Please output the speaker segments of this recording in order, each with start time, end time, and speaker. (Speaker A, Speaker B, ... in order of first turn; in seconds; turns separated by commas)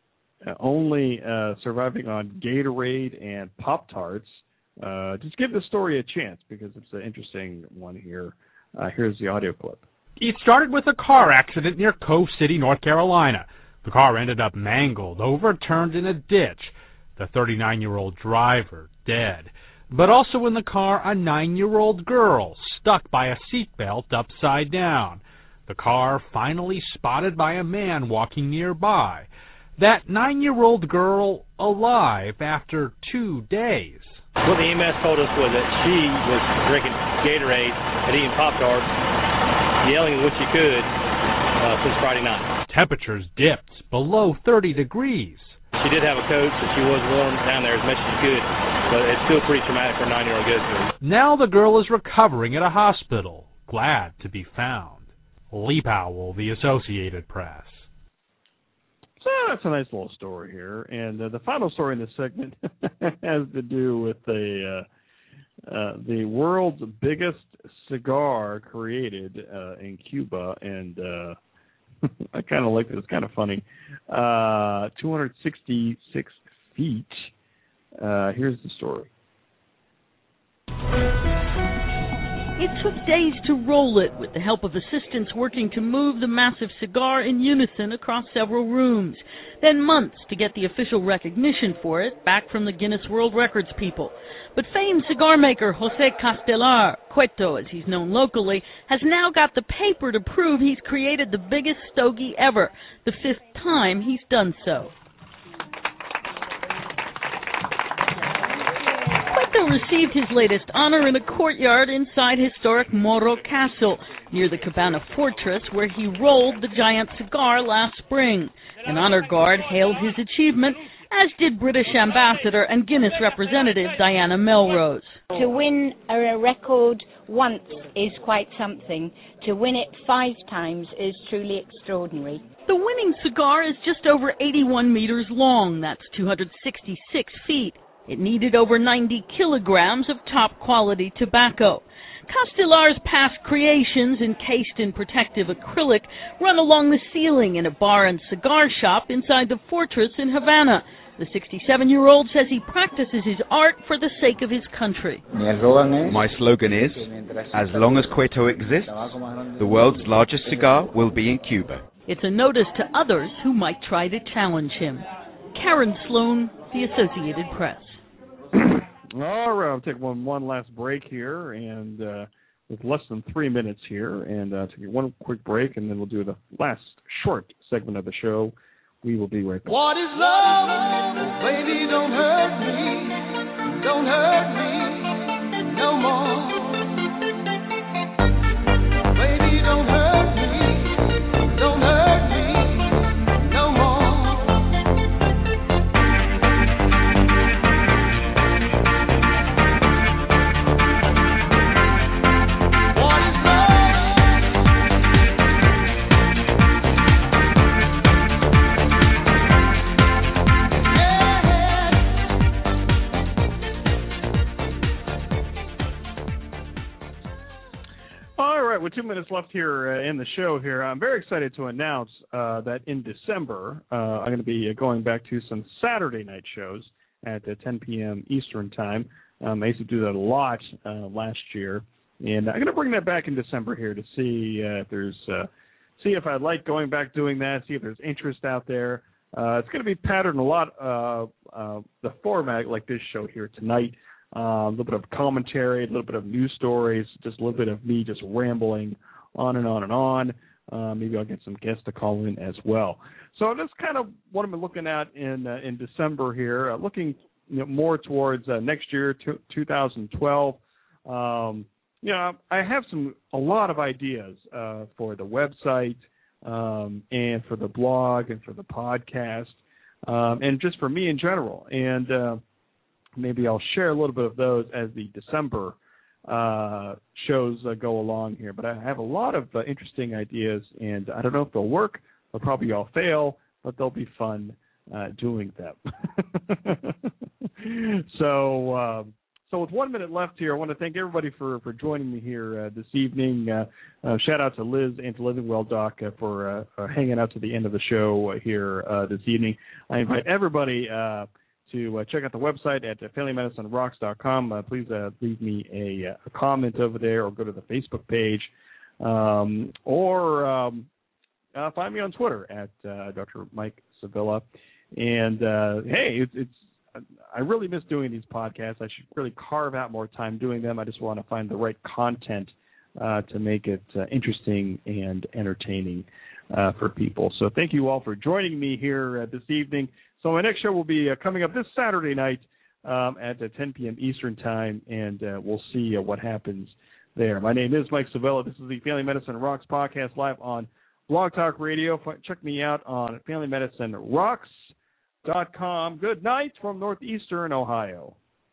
Speaker A: 0.4-9.8, Speaker B: 10.2-34.2, Speaker C: 34.4-38.9, Speaker C: 39.8-40.9, Speaker C: 41.6-42.5, Speaker B: 42.7-45.5, Speaker C: 45.8-50.9, Speaker B: 51.0-57.9, Speaker A: 59.2-64.8, Speaker A: 65.7-71.4, Speaker A: 72.3-77.3, Speaker A: 78.0-79.1, Speaker D: 82.6-104.9, Speaker D: 109.3-125.2, Speaker E: 125.4-132.4, Speaker D: 132.7-155.2, Speaker F: 156.0-161.8, Speaker D: 162.1-168.0, Speaker A: 168.6-180.6, Speaker A: 218.4-235.5, Speaker A: 236.0-272.4, Speaker A: 273.2-310.9, Speaker A: 311.5-344.7, Speaker A: 345.2-348.2